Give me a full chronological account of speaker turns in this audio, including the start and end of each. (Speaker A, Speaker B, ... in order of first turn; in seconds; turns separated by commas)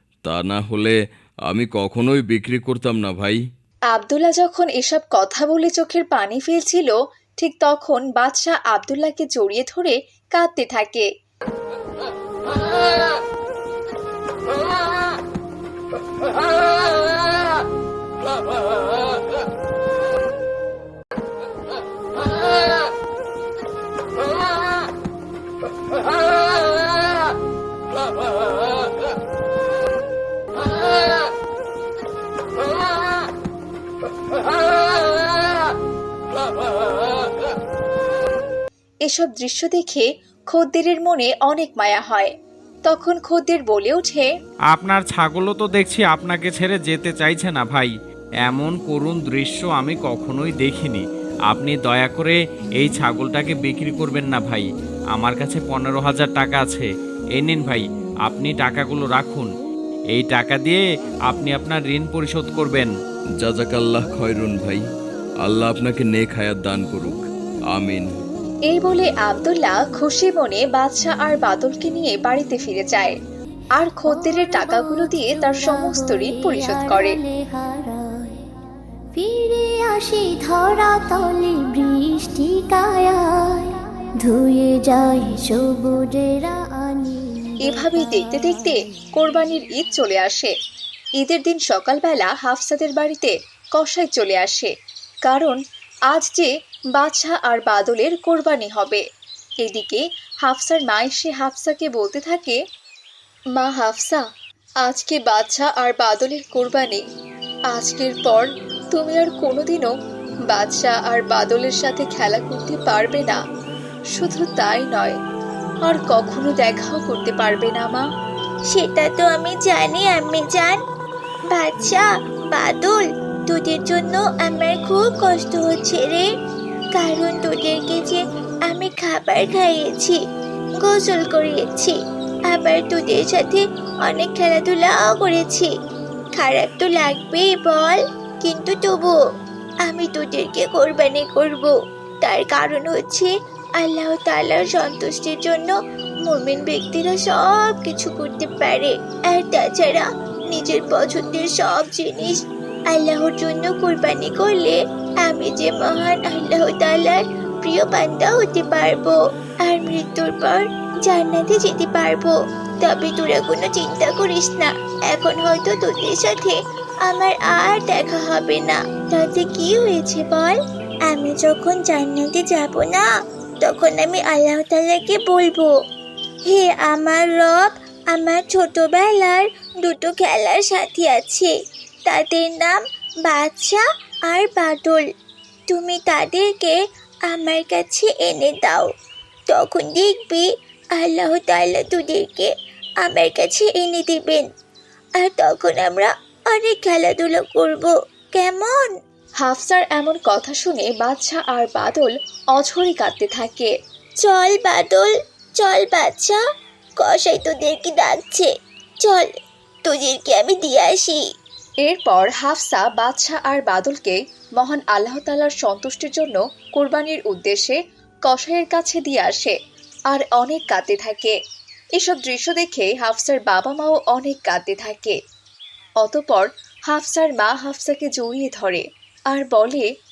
Speaker A: 0.2-0.9, Speaker A: 1.5-3.4, Speaker B: 3.9-11.1, Speaker B: 39.1-42.3, Speaker B: 42.9-44.3, Speaker C: 44.7-47.9, Speaker C: 48.5-59.5, Speaker C: 60.1-62.9, Speaker A: 63.4-64.8, Speaker A: 65.4-68.0, Speaker B: 68.7-73.2, Speaker B: 73.8-77.2, Speaker D: 74.1-78.4, Speaker D: 79.1-88.7, Speaker B: 87.7-90.5, Speaker B: 91.2-94.7, Speaker B: 95.2-95.6, Speaker B: 96.1-99.0, Speaker B: 99.6-102.6, Speaker B: 103.6-104.2, Speaker B: 104.8-107.0, Speaker B: 107.7-109.9, Speaker B: 110.5-113.4, Speaker B: 114.1-115.1, Speaker B: 115.8-118.0, Speaker E: 118.7-120.8, Speaker E: 121.5-126.3, Speaker E: 127.0-130.2, Speaker E: 130.8-132.0, Speaker E: 132.5-135.7, Speaker E: 136.3-139.2, Speaker E: 139.8-145.7, Speaker E: 146.3-173.1, Speaker E: 173.6-175.7, Speaker E: 176.4-181.5, Speaker E: 182.1-185.1, Speaker E: 185.7-188.9, Speaker E: 189.5-194.4, Speaker E: 195.2-198.9, Speaker B: 199.4-203.7, Speaker E: 204.2-206.4, Speaker E: 207.0-208.5, Speaker E: 209.0-209.3, Speaker E: 209.8-211.2, Speaker B: 211.8-219.5, Speaker B: 220.1-221.3, Speaker B: 222.0-225.2, Speaker B: 226.0-229.8